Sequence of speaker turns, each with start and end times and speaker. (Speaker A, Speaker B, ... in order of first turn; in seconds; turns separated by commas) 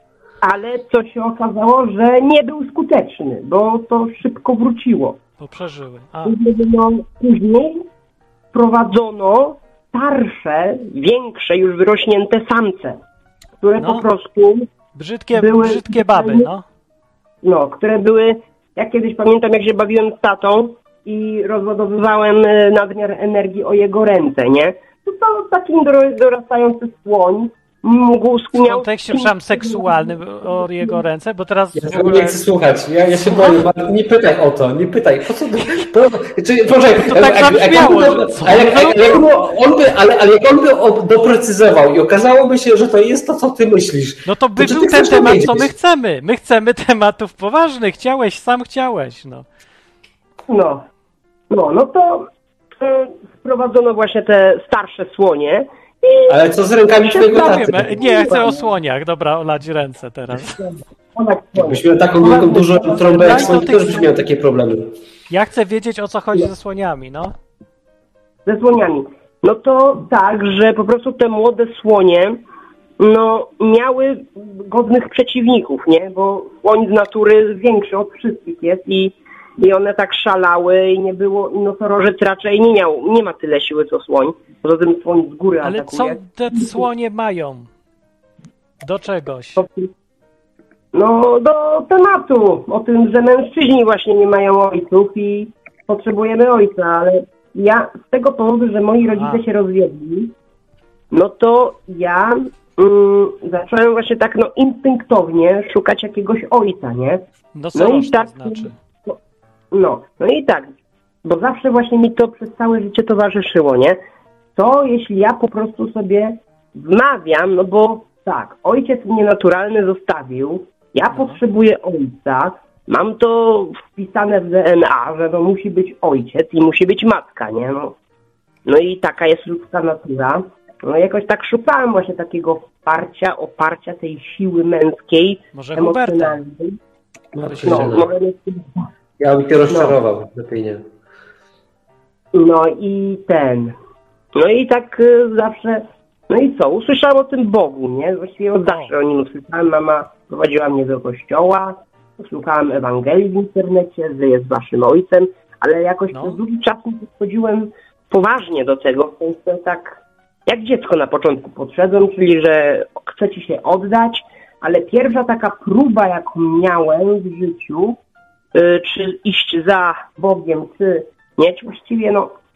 Speaker A: 0.4-5.2, Speaker B: 5.4-6.3, Speaker A: 6.2-7.8, Speaker A: 8.5-13.0, Speaker A: 13.6-14.7, Speaker B: 13.8-14.1, Speaker B: 14.9-16.6, Speaker A: 15.3-16.5, Speaker A: 17.4-31.0, Speaker B: 28.5-32.4, Speaker C: 31.8-45.7, Speaker B: 33.1-33.6, Speaker B: 36.9-39.2, Speaker B: 44.2-49.4, Speaker A: 50.5-50.9, Speaker A: 51.5-52.3, Speaker A: 52.8-56.4, Speaker C: 56.3-58.3, Speaker A: 56.9-58.6, Speaker B: 57.1-60.6, Speaker A: 60.6-63.7, Speaker C: 61.6-65.0, Speaker B: 62.5-64.1, Speaker B: 65.3-67.3, Speaker A: 68.5-72.4, Speaker A: 73.0-86.8, Speaker B: 85.6-87.7, Speaker B: 88.8-89.6, Speaker A: 89.5-89.9, Speaker A: 90.9-100.3, Speaker B: 99.1-99.4, Speaker A: 101.1-107.2, Speaker B: 107.5-108.7, Speaker A: 107.7-109.2, Speaker A: 109.7-110.7, Speaker A: 111.2-114.0, Speaker A: 114.5-127.9, Speaker B: 121.1-121.4, Speaker A: 128.7-136.8, Speaker B: 135.5-136.4, Speaker C: 137.3-138.1, Speaker B: 137.4-138.0, Speaker A: 137.6-138.8, Speaker C: 139.2-140.8, Speaker A: 139.7-139.9, Speaker A: 142.3-143.7, Speaker A: 144.3-168.0, Speaker B: 148.6-148.9, Speaker B: 156.1-156.4, Speaker A: 168.5-172.3